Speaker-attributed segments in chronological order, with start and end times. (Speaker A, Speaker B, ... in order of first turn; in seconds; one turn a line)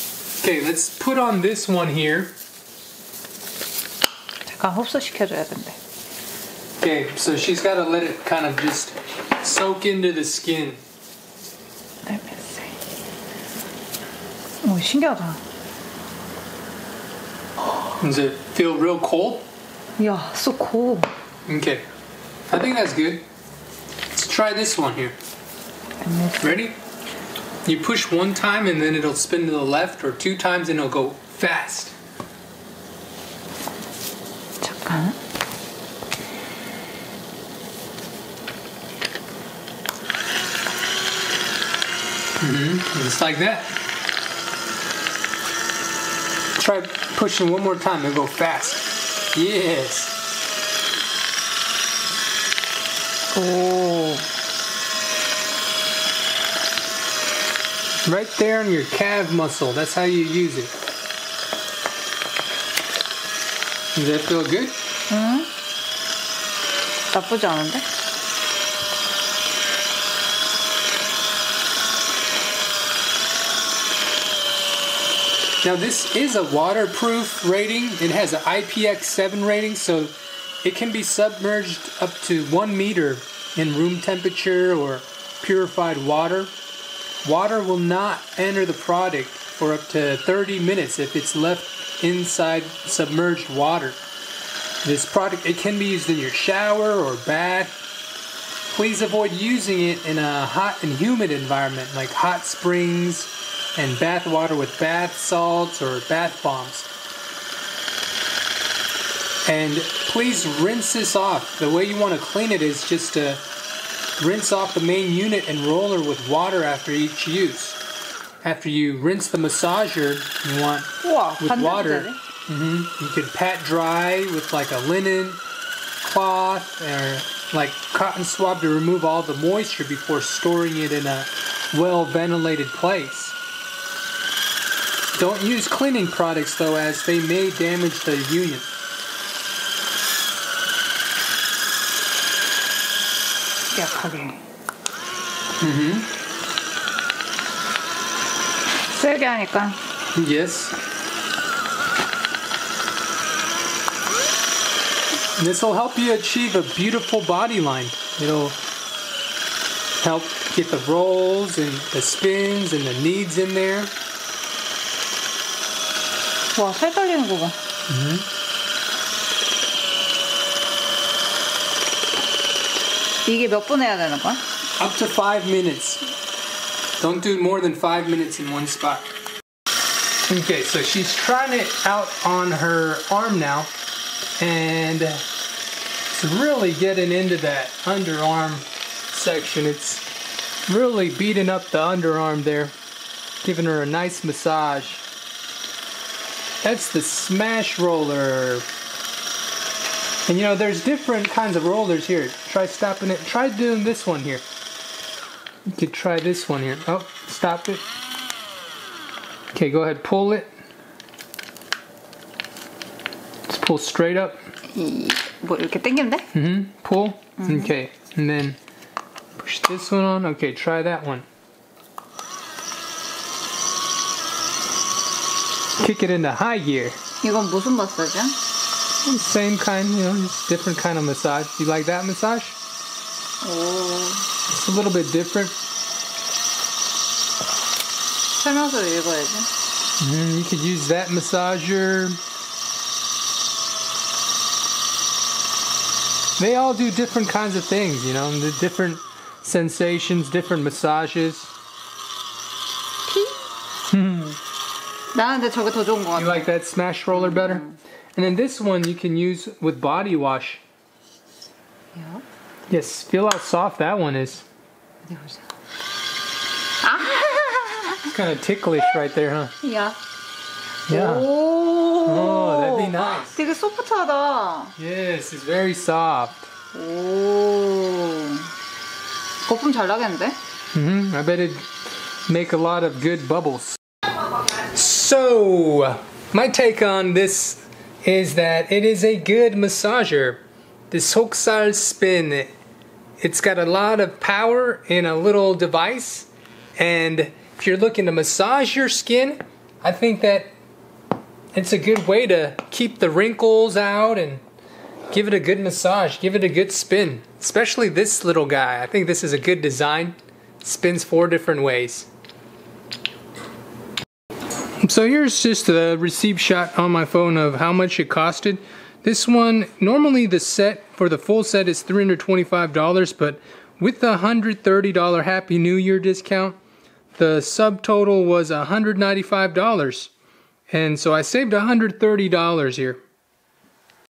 Speaker A: 0.4-2.4
Speaker B: 4.5-5.8
Speaker A: 6.8-10.8
Speaker B: 12.1-12.8
Speaker B: 14.6-15.4
Speaker A: 18.0-19.5
Speaker B: 20.0-21.1
Speaker A: 21.5-21.9
Speaker A: 22.5-23.2
Speaker A: 24.1-25.2
Speaker B: 26.0-26.6
Speaker A: 26.4-26.8
Speaker A: 27.6-32.0
Speaker B: 34.6-35.2
Speaker A: 42.4-43.7
Speaker A: 46.6-50.1
Speaker B: 53.3-54.3
Speaker A: 58.1-60.7
Speaker A: 64.0-64.8
Speaker B: 65.1-65.5
Speaker B: 67.1-67.9
Speaker A: 75.6-86.5
Speaker A: 87.2-94.0
Speaker A: 94.8-97.8
Speaker A: 98.7-106.9
Speaker A: 109.5-113.4
Speaker A: 114.2-117.8
Speaker A: 118.4-125.4
Speaker B: 121.0-122.2
Speaker A: 126.0-133.4
Speaker A: 135.2-138.7
Speaker B: 143.7-144.4
Speaker A: 145.6-146.1
Speaker B: 148.9-149.8
Speaker A: 150.2-150.8
Speaker A: 155.4-158.6
Speaker A: 160.0-163.9
Speaker B: 166.6-167.6
Speaker A: 167.9-168.3
Speaker B: 173.2-174.4
Speaker A: 174.8-176.1
Speaker A: 177.0-179.1
Speaker A: 180.3-183.7
Speaker A: 184.4-185.2
Speaker A: 186.1-190.1
Speaker A: 190.7-192.8
Speaker A: 193.4-195.1
Speaker A: 196.6-198.7
Speaker A: 200.3-204.5
Speaker A: 205.7-207.8
Speaker A: 209.5-210.5
Speaker A: 213.5-214.4
Speaker B: 214.7-216.3
Speaker A: 216.3-218.6
Speaker B: 217.4-217.7
Speaker A: 219.4-221.3
Speaker A: 225.8-227.0
Speaker B: 227.2-228.4
Speaker A: 229.0-232.6
Speaker B: 233.4-234.3
Speaker A: 234.5-235.6
Speaker B: 238.4-239.5
Speaker A: 240.0-242.2
Speaker A: 246.4-251.5
Speaker B: 253.1-253.4
Speaker A: 253.9-254.4
Speaker B: 255.1-256.5
Speaker A: 256.2-257.6
Speaker B: 257.1-257.8
Speaker A: 258.2-260.6
Speaker B: 261.9-262.2
Speaker A: 262.7-264.5
Speaker B: 265.1-265.4
Speaker B: 266.8-268.1
Speaker A: 268.1-269.6
Speaker B: 269.6-270.0
Speaker A: 270.9-271.3
Speaker B: 270.9-274.8
Speaker A: 272.0-273.4
Speaker A: 274.8-276.5
Speaker B: 276.7-278.5
Speaker B: 279.5-280.4
Speaker A: 280.7-281.7
Speaker A: 282.3-283.8
Speaker A: 284.5-292.5
Speaker A: 293.2-300.5
Speaker A: 301.5-304.4
Speaker A: 305.1-312.1
Speaker A: 314.8-326.6
Speaker A: 327.2-330.1
Speaker A: 330.7-333.0